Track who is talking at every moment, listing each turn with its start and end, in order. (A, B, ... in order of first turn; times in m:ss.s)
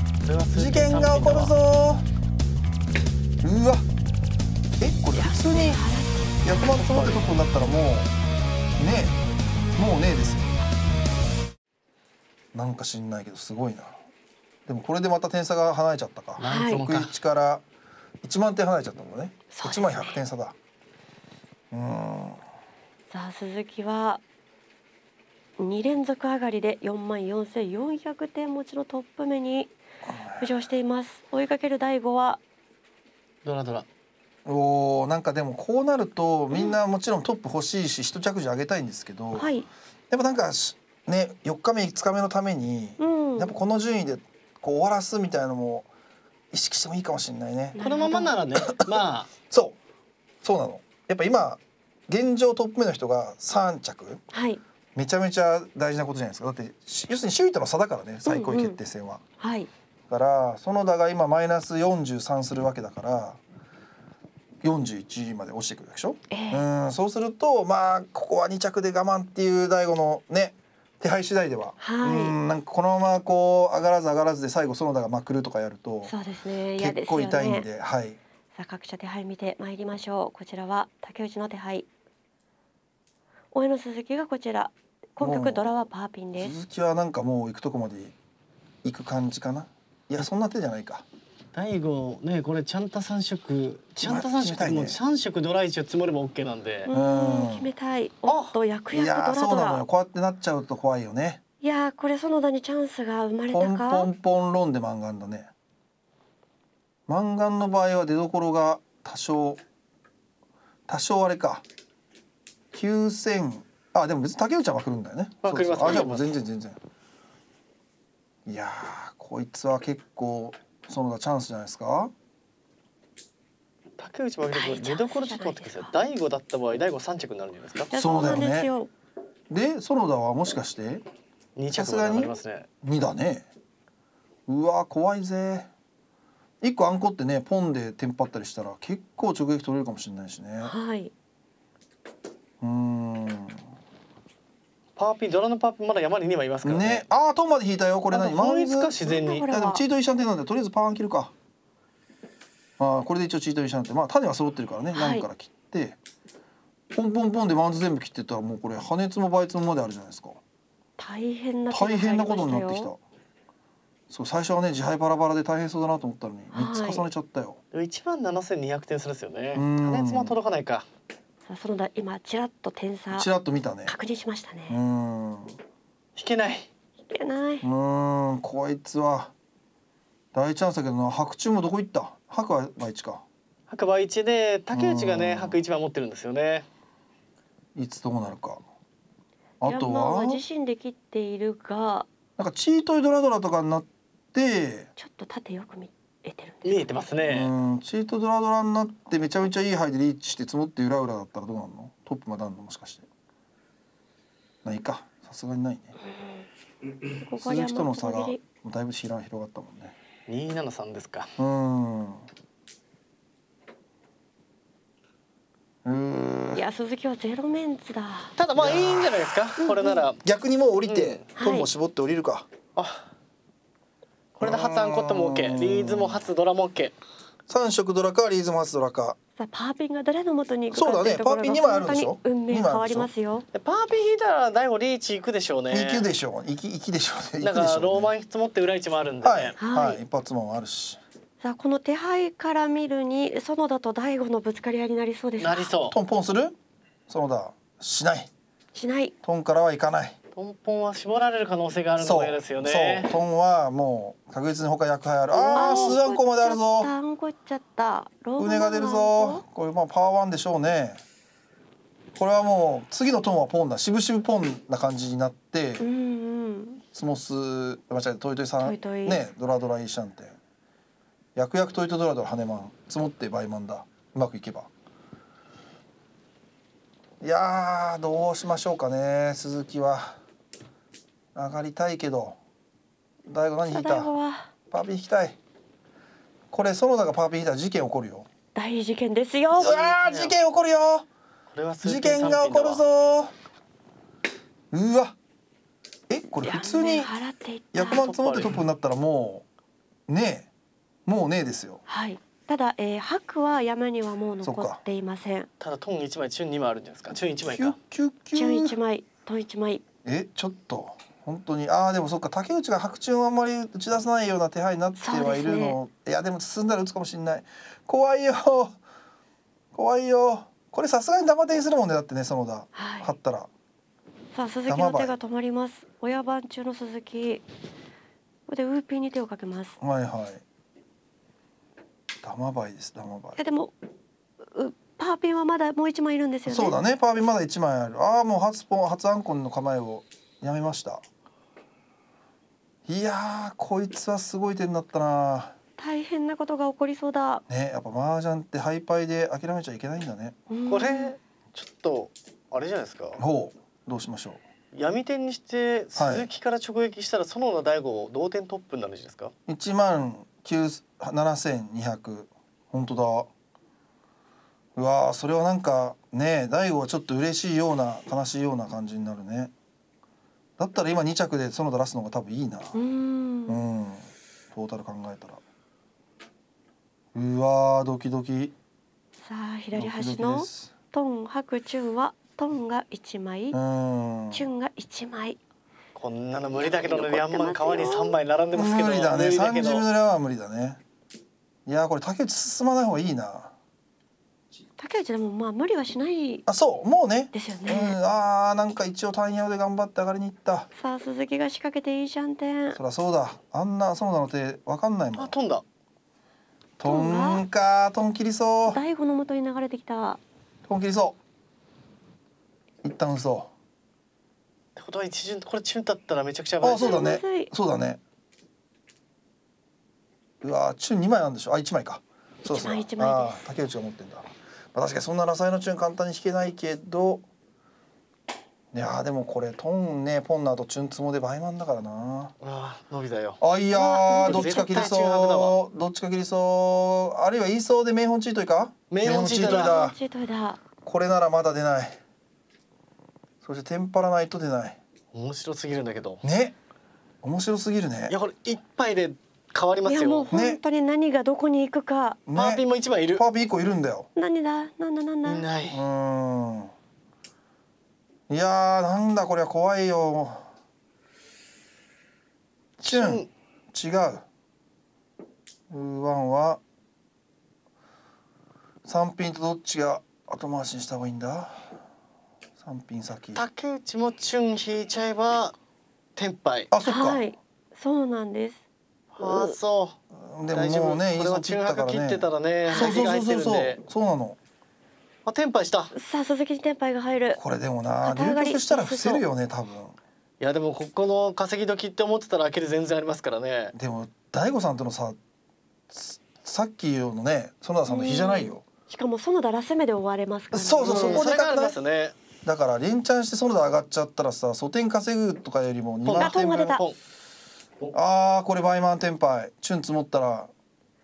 0:00.2-0:01.6 A
0:00.5-0:02.0 B
0:03.4-0:03.8 B
0:04.8-0:05.8 B
0:05.1-0:07.2 C
0:06.4-0:08.1 B
0:08.8-0:09.2 B
0:09.8-0:10.6 B
0:12.5-0:14.0 B
0:14.7-0:17.6 B
0:16.4-0:17.2 A
0:16.4-0:16.8 C
0:18.2-0:20.6 B
0:19.5-0:20.2 C
0:21.7-0:22.4 B
0:23.1-0:24.2 C
0:25.6-0:29.7 C
0:30.0-0:30.6 B
0:30.4-0:32.4 C
0:33.4-0:33.9 A
0:34.5-0:39.5 B
0:39.4-0:39.7 C
0:40.1-0:45.9 B
0:43.0-0:43.6 C
0:46.5-0:47.8 B
0:47.7-0:48.4 C
0:47.8-0:49.3 A
0:49.5-0:49.8 B
0:50.4-0:54.2 B
0:54.3-0:54.6 C
0:55.0-0:59.2 B
0:58.2-0:58.8 C
0:59.4-0:59.7 C
1:00.1-1:03.4 B
1:04.6-1:16.2 B
1:06.3-1:06.7 C
1:11.8-1:12.4 C
1:16.0-1:17.7 C
1:16.8-1:18.2 B
1:18.6-1:21.9 C
1:23.5-1:26.6 C
1:25.2-1:25.7 B
1:26.4-1:28.1 B
1:28.8-1:31.0 B
1:31.5-1:36.9 A
1:34.0-1:35.0 B
1:36.9-1:39.8 C
1:36.9-1:37.7 B
1:38.3-1:38.6 A
1:38.9-1:41.4 B
1:41.6-1:44.1 C
1:43.5-1:45.5 B
1:47.1-1:49.6 B
1:50.9-1:51.6 B
1:52.7-1:56.8 B
1:55.4-1:56.4 A
1:58.5-2:02.1 B
2:04.0-2:07.9 A
2:04.5-2:05.9 C
2:07.9-2:08.9 C
2:08.0-2:08.7 B
2:09.5-2:11.0 B
2:11.6-2:12.7 A
2:11.7-2:13.5 B
2:14.5-2:15.7 B
2:16.6-2:20.7 B
2:20.6-2:21.1 C
2:22.6-2:23.6 B
2:25.0-2:27.1 A
2:26.6-2:31.3 B
2:28.1-2:29.5 A
2:29.0-2:29.8 C
2:32.8-2:36.0 B
2:34.9-2:35.3 C
2:36.9-2:40.4 B
2:41.0-2:42.9 C
2:41.7-2:43.0 B
2:44.1-2:47.6 B
2:46.5-2:47.1 C
2:47.7-2:50.9 A
2:49.5-2:50.4 B
2:51.5-2:53.3 C
2:53.1-2:53.9 B
2:53.9-2:54.8 C
2:54.7-2:55.6 B
2:56.2-2:56.7 A
2:57.1-2:57.6 C
2:57.6-2:59.3 B
3:00.3-3:03.2 B
3:03.7-3:06.7 A
3:04.7-3:05.6 B
3:07.8-3:08.6 B
3:09.6-3:10.4 B
3:09.6-3:12.1 C
3:12.4-3:14.9 B
3:15.0-3:17.1 C
3:16.6-3:17.5 A
3:17.3-3:23.1 B
3:24.6-3:26.0 B
3:26.1-3:26.5 C
3:27.2-3:28.4 C
3:27.4-3:30.0 B
3:30.3-3:31.3 A
3:31.4-3:32.2 B
3:35.8-3:36.6 B
3:36.6-3:38.4 C
3:38.4-3:40.2 A
3:38.6-3:39.1 B
3:39.6-3:40.1 C
3:40.2-3:42.5 B
3:40.9-3:41.3 A
3:41.4-3:41.7 C
3:42.8-3:43.1 A
3:44.4-3:47.0 A
3:44.4-3:46.3 B
3:47.5-3:49.2 B
3:49.4-3:53.5 C
3:50.7-3:53.1 B
3:53.5-3:56.1 A
3:55.7-3:58.1 B
3:57.4-3:59.6 A
3:59.2-4:01.0 B
3:59.6-4:00.0 C
4:01.4-4:05.7 C
4:05.4-4:06.0 A
4:05.9-4:06.6 B
4:07.1-4:08.3 B
4:08.7-4:09.1 C
4:09.2-4:10.2 B
4:10.3-4:13.1 A
4:12.0-4:16.9 B
4:15.4-4:16.0 A
4:15.6-4:19.4 C
4:18.4-4:21.0 B
4:22.2-4:25.8 B
4:25.8-4:26.8 C
4:26.9-4:30.4 B
4:28.6-4:29.2 C
4:31.4-4:34.7 B
4:37.2-4:40.2 B
4:41.4-4:42.4 B
4:43.3-4:44.1 B
4:43.7-4:44.5 C
4:44.7-4:45.4 B
4:46.5-4:48.3 B
4:48.6-4:49.9 C
4:49.5-4:51.1 B
4:49.8-4:50.4 A
4:51.5-4:52.8 A
4:51.8-4:53.3 B
4:54.7-4:55.2 B
4:56.1-4:57.1 B
4:56.4-4:58.0 C
4:57.7-4:59.4 B
4:57.8-4:58.6 A
5:00.1-5:00.5 B
5:01.1-5:01.8 B
5:01.9-5:05.5 C
5:04.4-5:04.8 B
5:05.6-5:07.8 A
5:07.4-5:08.8 B
5:08.4-5:09.8 C
5:10.0-5:18.8 B
5:15.0-5:15.8 C
5:19.7-5:23.5 B
5:22.8-5:23.1 C
5:24.3-5:27.4 C
5:24.7-5:25.2 B
5:28.5-5:29.8 C
5:29.8-5:30.4 B
5:32.2-5:33.4 B
5:33.4-5:33.7 C
5:34.4-5:36.8 C
5:36.5-5:41.0 B
5:42.9-5:45.6 B
5:45.8-5:47.4 C
5:47.5-5:50.4 B
5:50.5-5:51.1 C
5:50.7-5:53.2 A
5:53.2-5:54.4 B
5:54.7-5:59.3 A
5:56.0-5:56.3 B
5:59.5-6:03.3 B
6:04.8-6:09.5 B
6:10.6-6:12.8 B
6:12.7-6:13.6 C
6:13.5-6:15.4 B
6:17.2-6:18.6 B
6:19.2-6:23.6 C
6:19.7-6:20.7 B
6:23.5-6:24.5 B
6:24.3-6:25.4 C
6:26.0-6:29.9 A
6:26.7-6:28.2 C
6:28.5-6:30.8 B
6:31.7-6:33.5 B
6:34.8-6:36.4 C
6:36.5-6:40.7 B
6:37.3-6:38.0 C
6:40.8-6:42.8 C
6:42.8-6:45.4 B
6:45.2-6:45.6 A
6:46.8-6:48.8 B
6:46.8-6:47.4 C
6:48.7-6:50.2 C
6:50.7-6:51.2 B
6:52.8-6:53.5 B
6:54.8-6:57.1 A
6:56.6-6:58.0 B
6:56.7-6:57.5 C
7:00.4-7:07.2 B
7:02.4-7:03.5 C
7:08.7-7:12.4 B
7:12.4-7:13.4 A
7:13.4-7:20.0 B
7:13.7-7:14.9 C
7:14.2-7:15.6 A
7:18.9-7:19.8 A
7:19.2-7:20.6 C
7:20.8-7:22.0 B
7:23.4-7:24.8 B
7:25.1-7:26.2 A
7:26.2-7:26.6 B
7:27.2-7:28.2 B
7:28.1-7:30.3 A
7:29.8-7:32.2 C
7:30.3-7:30.6 B
7:32.3-7:34.1 B
7:32.4-7:33.2 A
7:34.2-7:35.5 C
7:35.2-7:35.8 A
7:35.7-7:36.7 B
7:38.3-7:40.5 B
7:42.8-7:43.3 A
7:42.8-7:44.2 B
7:45.7-7:46.6 B
7:48.8-7:51.7 B
7:52.6-7:53.4 B
7:53.4-7:55.6 A
7:56.2-7:56.7 A
7:56.7-7:57.2 B
7:56.8-7:58.6 C
7:59.1-8:00.0 A
7:59.2-7:59.6 C
8:00.1-8:04.4 B
8:00.5-8:03.8 A
8:02.7-8:03.0 C
8:05.3-8:05.9 A
8:05.9-8:07.4 C
8:07.4-8:10.0 B
8:08.0-8:09.2 C
8:10.4-8:13.7 A
8:13.8-8:15.2 B
8:15.9-8:18.6 B
8:17.9-8:21.3 C
8:20.5-8:21.8 B
8:20.8-8:22.2 A
8:22.4-8:26.8 B
8:26.0-8:27.0 A
8:26.2-8:26.8 C
8:27.9-8:30.5 B